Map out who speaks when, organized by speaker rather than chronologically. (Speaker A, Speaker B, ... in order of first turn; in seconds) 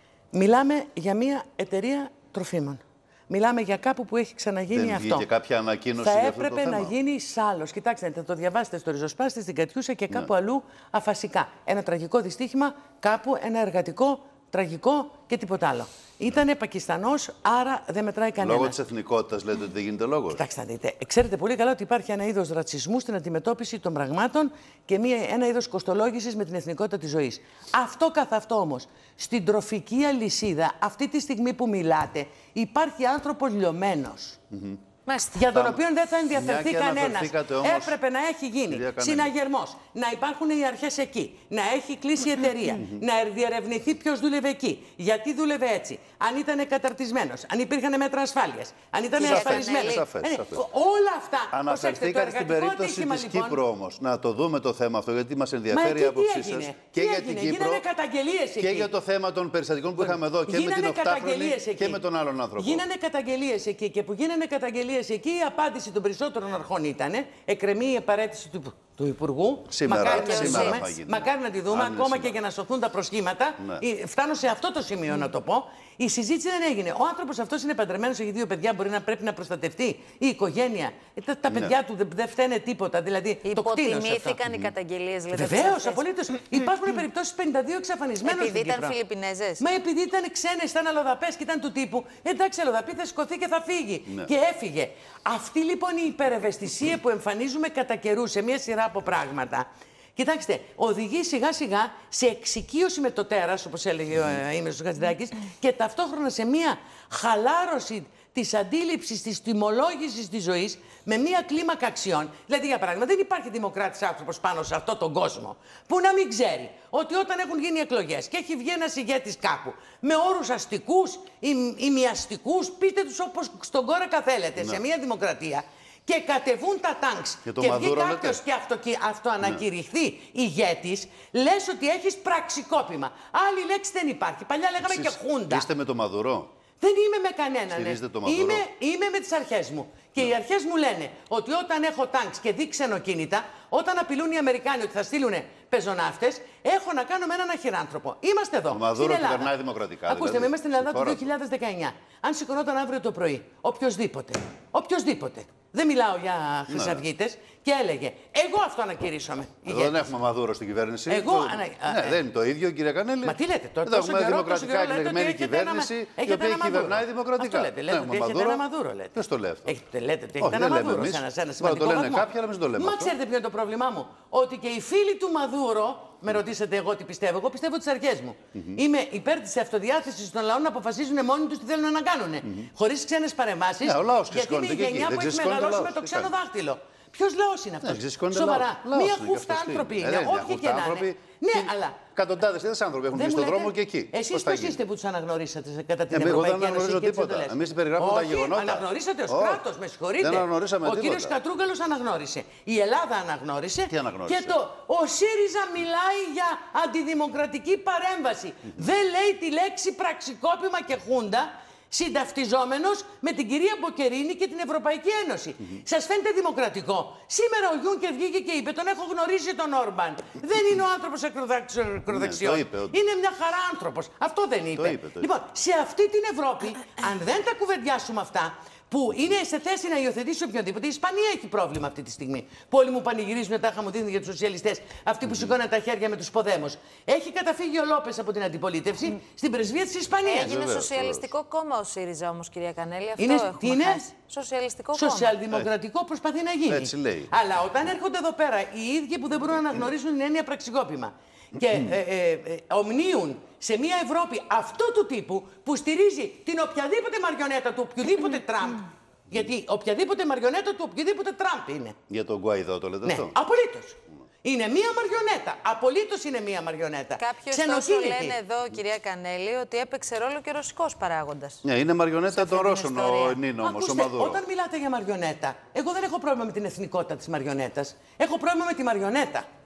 Speaker A: 0.3-5.3, 6.0-18.8, 20.3-34.4, 35.3-53.6, 55.7-58.9, 60.0-62.0, 62.6-84.4, 85.3-89.0, 89.6-135.7, 136.8-149.5, 150.1-160.1, 161.1-162.2, 163.2-192.0, 193.1-240.7, 243.2-244.1, 244.9-262.0, 263.0-268.4, 273.6-279.5
Speaker B: 4.7-6.9, 18.4-20.4, 34.5-34.8, 35.5-35.8, 36.3-38.0, 38.7-39.3, 49.2-50.7, 51.5-57.8, 58.6-62.9, 69.7-72.3, 127.5-128.4, 134.8-136.5, 137.7-138.7, 148.7-151.3, 156.7-157.0, 159.7-168.6, 169.2-169.7, 170.4-173.1, 178.6-178.8, 183.8-186.3, 187.8-194.8, 196.1-199.6, 200.2-201.4, 203.9-204.6, 222.1-223.0, 224.8-225.3, 240.3-241.3, 246.7-247.3, 262.1-263.3, 271.6-274.4
Speaker C: 35.1-35.5, 49.2-50.1, 70.0-70.8, 83.5-86.0, 88.2-89.6, 240.2-245.4, 267.2-271.6, 272.3-273.4